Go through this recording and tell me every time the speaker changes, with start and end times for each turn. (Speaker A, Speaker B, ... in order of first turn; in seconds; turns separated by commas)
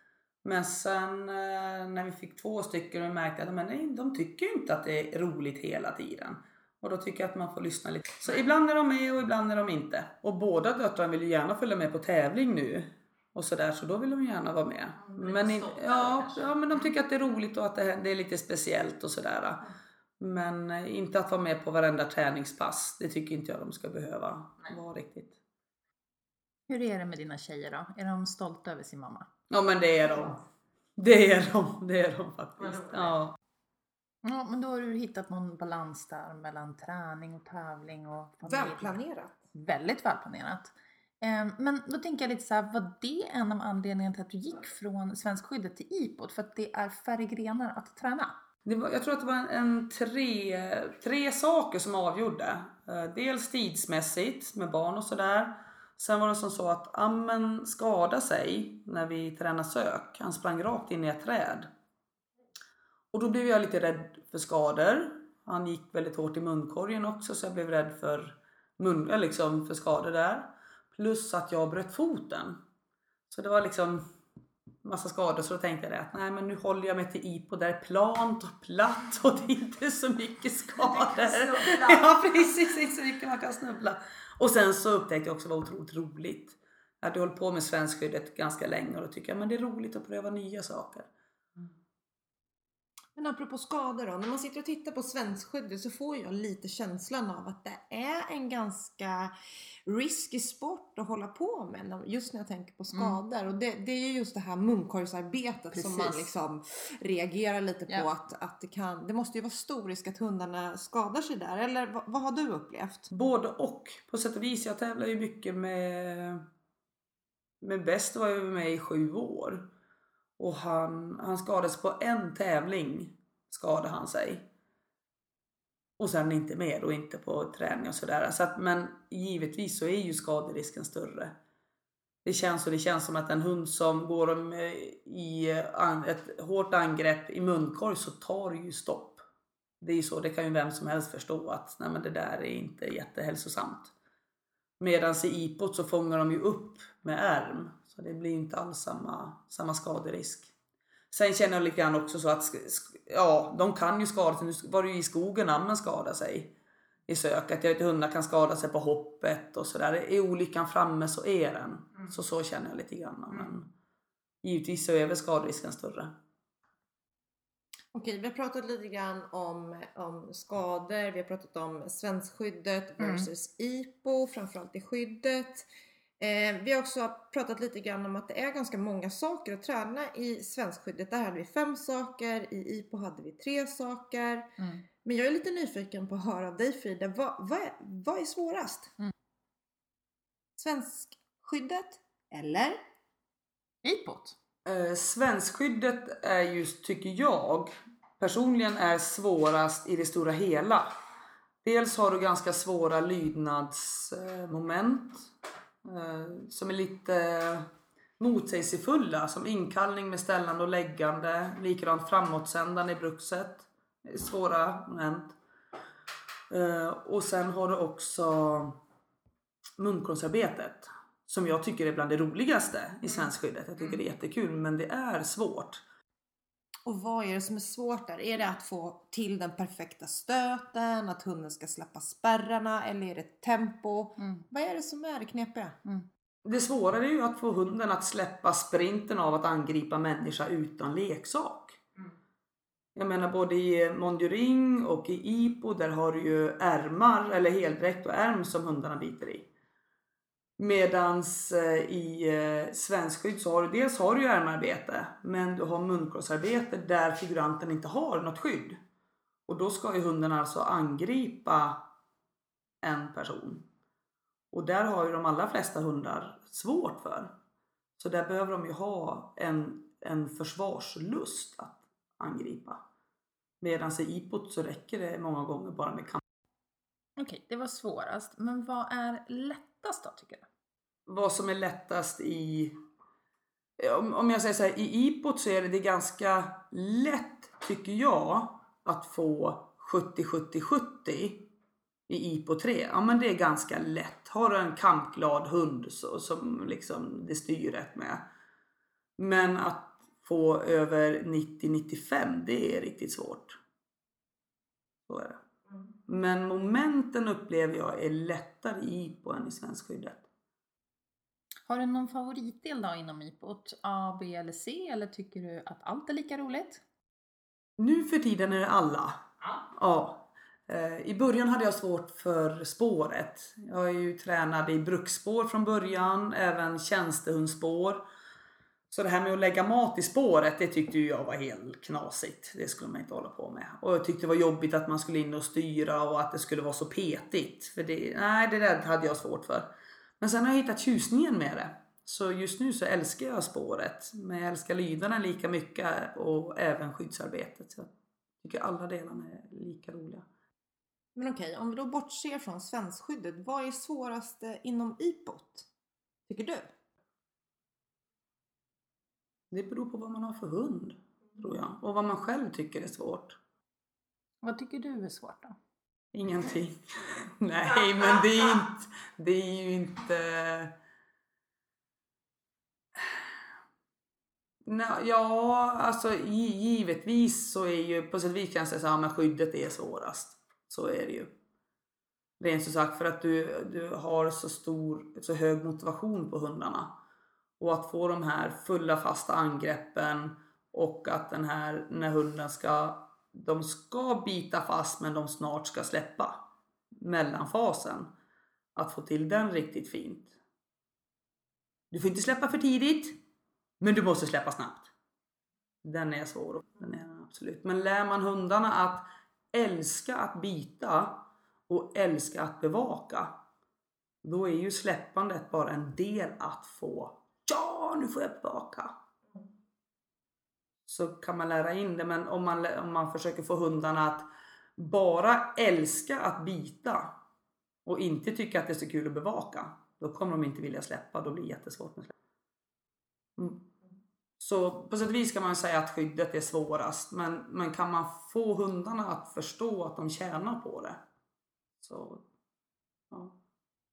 Speaker A: 0.4-19.6, Speaker B: 15.0-16.6, Speaker A: 20.2-25.4, Speaker B: 26.7-29.3, Speaker A: 29.5-30.4, Speaker A: 31.0-33.4, Speaker B: 34.2-39.0, Speaker C: 38.4-39.4, Speaker B: 39.5-48.3, Speaker A: 48.6-61.7, Speaker A: 63.1-72.6, Speaker A: 73.3-74.1, Speaker A: 74.8-91.1, Speaker B: 80.8-82.6, Speaker C: 93.2-99.3, Speaker C: 99.9-113.1, Speaker B: 102.9-103.2, Speaker A: 105.8-106.1, Speaker A: 113.1-116.4, Speaker A: 117.6-119.7, Speaker A: 120.4-124.5, Speaker A: 126.0-131.3, Speaker A: 132.2-139.2, Speaker A: 139.8-143.9, Speaker A: 144.8-150.5, Speaker A: 151.1-156.5, Speaker A: 157.1-163.7, Speaker A: 164.4-166.1, Speaker C: 167.9-175.7, Speaker B: 173.0-173.3, Speaker C: 176.2-184.5, Speaker C: 185.0-188.9, Speaker C: 190.6-192.8, Speaker B: 193.8-194.4, Speaker A: 194.6-200.9, Speaker A: 201.6-205.3, Speaker A: 205.8-207.7, Speaker A: 208.2-215.3, Speaker A: 216.5-218.8, Speaker A: 219.8-225.8, Speaker C: 226.9-235.8, Speaker A: 236.4-241.8, Speaker A: 242.9-249.5, Speaker A: 250.6-258.8, Speaker A: 259.5-261.8, Speaker A: 262.8-263.7, Speaker A: 264.5-267.3, Speaker A: 268.0-272.8, Speaker A: 273.6-276.2, Speaker B: 277.2-280.4, Speaker A: 281.1-282.8, Speaker A: 283.8-291.4, Speaker A: 292.1-298.2, Speaker A: 299.2-303.6, Speaker A: 305.1-305.4, Speaker A: 306.1-310.2, Speaker B: 311.6-316.8, Speaker A: 317.8-328.1, Speaker A: 328.9-339.7, Speaker A: 340.2-347.9, Speaker A: 348.4-350.3, Speaker C: 351.1-355.7, Speaker C: 356.3-356.7, Speaker A: 359.5-363.4, Speaker B: 364.4-365.6, Speaker A: 366.1-370.7, Speaker A: 374.6-381.3, Speaker A: 382.4-386.9, Speaker A: 387.6-396.4, Speaker A: 396.9-398.1, Speaker A: 398.8-400.4, Speaker A: 401.9-403.2, Speaker A: 403.8-404.9, Speaker A: 405.8-413.3, Speaker A: 414.2-418.9, Speaker A: 420.9-427.1, Speaker A: 427.9-432.1, Speaker A: 433.4-433.7, Speaker A: 434.4-441.0, Speaker A: 441.8-442.2